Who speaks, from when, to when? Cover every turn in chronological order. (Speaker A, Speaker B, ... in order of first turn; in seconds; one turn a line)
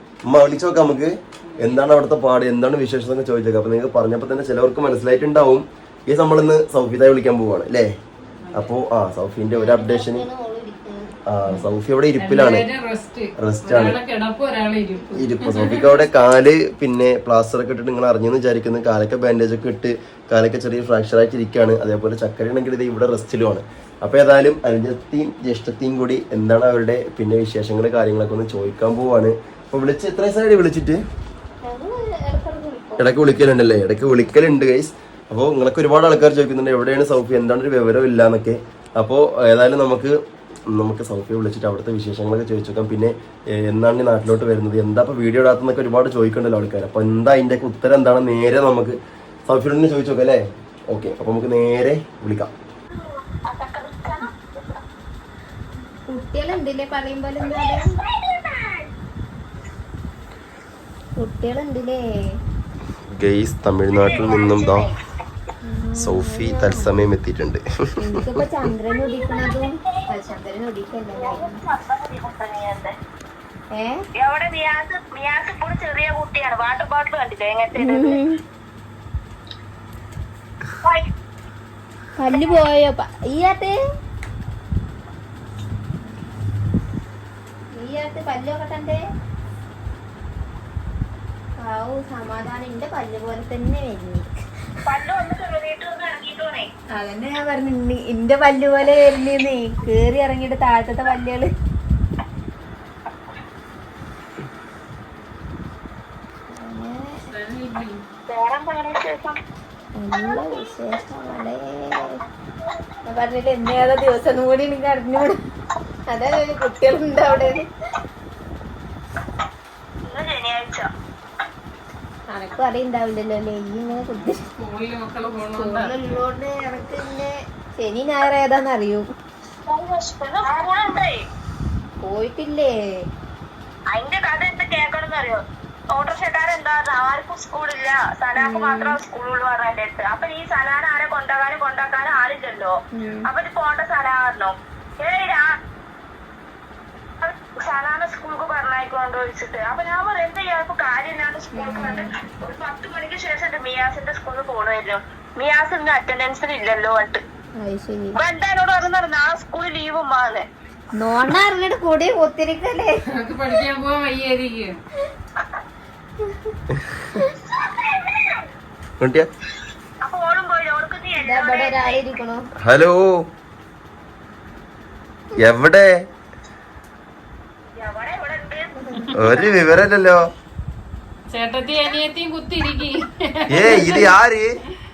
Speaker A: 0.3-7.9
Speaker B: 1.4-1.8
Speaker B: 8.4-8.8
Speaker A: 8.5-10.2
Speaker C: 9.5-11.1
Speaker A: 11.3-12.6
Speaker B: 12.2-16.0
Speaker A: 13.4-13.9
Speaker A: 15.2-31.0
Speaker C: 31.6-33.3
Speaker A: 33.0-40.1
Speaker A: 40.7-52.5
Speaker D: 52.9-54.8
Speaker C: 56.1-57.9
Speaker D: 57.4-58.9
Speaker C: 61.2-62.0
Speaker A: 63.1-64.9
Speaker D: 63.9-65.0
Speaker C: 65.6-67.0
Speaker A: 66.0-68.3
Speaker C: 68.0-71.6
Speaker D: 69.0-70.0
Speaker D: 71.1-72.9
Speaker D: 74.2-78.2
Speaker C: 77.8-78.4
Speaker D: 80.8-81.1
Speaker C: 82.2-83.7
Speaker C: 87.8-89.0
Speaker C: 91.6-94.3
Speaker D: 94.8-96.7
Speaker C: 97.0-101.5
Speaker C: 106.6-107.2
Speaker B: 107.2-108.0
Speaker D: 108.3-109.4
Speaker C: 110.0-112.2
Speaker C: 113.0-115.4
Speaker C: 116.1-117.7
Speaker D: 120.0-120.9
Speaker C: 122.3-124.5
Speaker B: 124.0-126.2
Speaker C: 125.5-129.1
Speaker D: 129.7-131.2
Speaker C: 132.0-132.7
Speaker D: 133.9-142.7
Speaker C: 138.3-139.0
Speaker C: 142.9-143.3
Speaker D: 143.2-145.4
Speaker D: 147.2-157.2
Speaker C: 151.6-152.1
Speaker C: 157.6-158.2
Speaker D: 158.1-160.4
Speaker C: 161.0-162.9
Speaker B: 163.1-164.8
Speaker D: 167.4-168.4
Speaker A: 169.0-169.3
Speaker D: 170.0-172.0
Speaker C: 171.2-172.4
Speaker A: 172.6-173.0
Speaker A: 175.4-175.9
Speaker D: 177.8-178.7
Speaker C: 178.8-179.1
Speaker A: 179.1-180.2
Speaker B: 181.3-184.1
Speaker A: 183.5-184.5